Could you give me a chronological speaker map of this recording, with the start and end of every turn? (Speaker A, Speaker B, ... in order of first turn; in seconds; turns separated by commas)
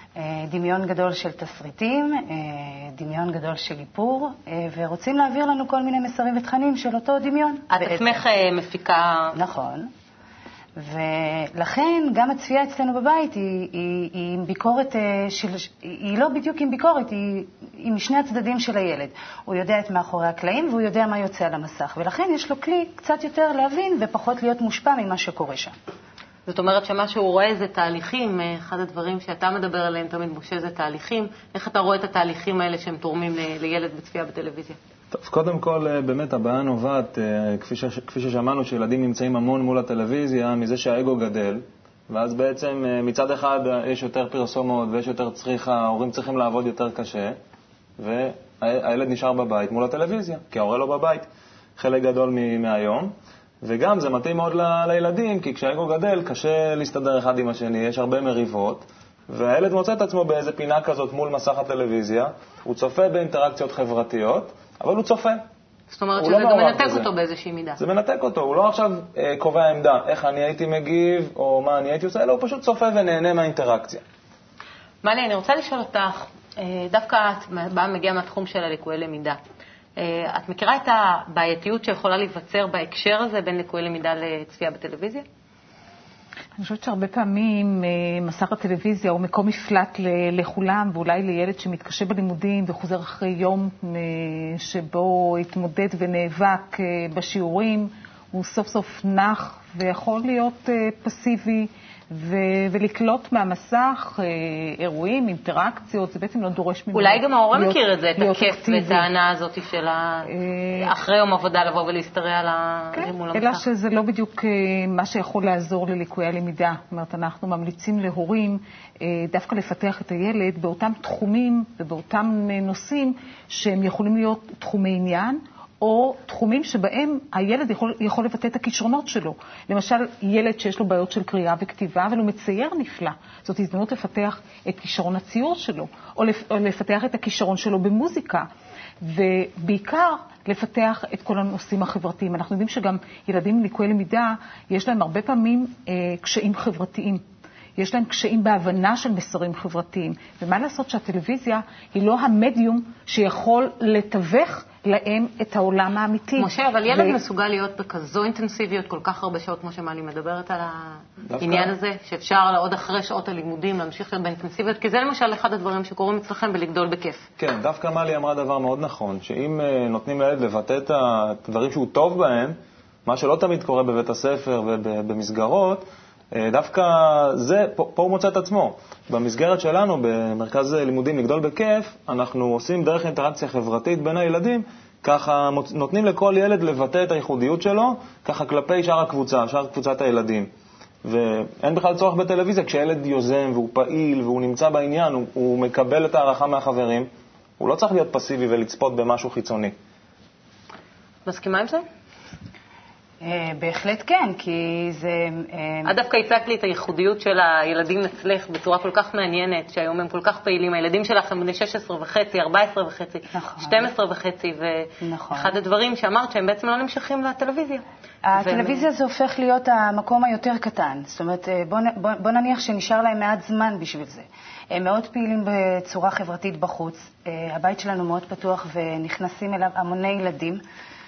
Speaker A: 0.2-8.2, Speaker B: 7.7-9.3, Speaker A: 9.3-9.9, Speaker A: 10.8-25.7, Speaker B: 26.4-34.8, Speaker C: 35.1-47.4, Speaker C: 48.0-51.2, Speaker C: 51.8-65.4, Speaker B: 65.9-67.8, Speaker C: 66.2-67.1, Speaker C: 67.8-74.0, Speaker B: 75.0-79.4, Speaker B: 80.0-85.2, Speaker D: 86.6-109.0, Speaker B: 106.9-113.6, Speaker D: 110.3-110.9, Speaker D: 112.9-138.5, Speaker D: 139.0-147.2, Speaker D: 147.8-157.2, Speaker B: 156.4-167.2, Speaker C: 161.3-161.7, Speaker C: 167.4-190.5, Speaker C: 191.0-197.1, Speaker C: 197.6-199.8, Speaker B: 201.2-201.8, Speaker A: 203.2-205.9, Speaker B: 205.8-217.8, Speaker A: 213.3-213.8, Speaker A: 215.0-215.5, Speaker A: 218.3-230.6, Speaker B: 218.3-218.8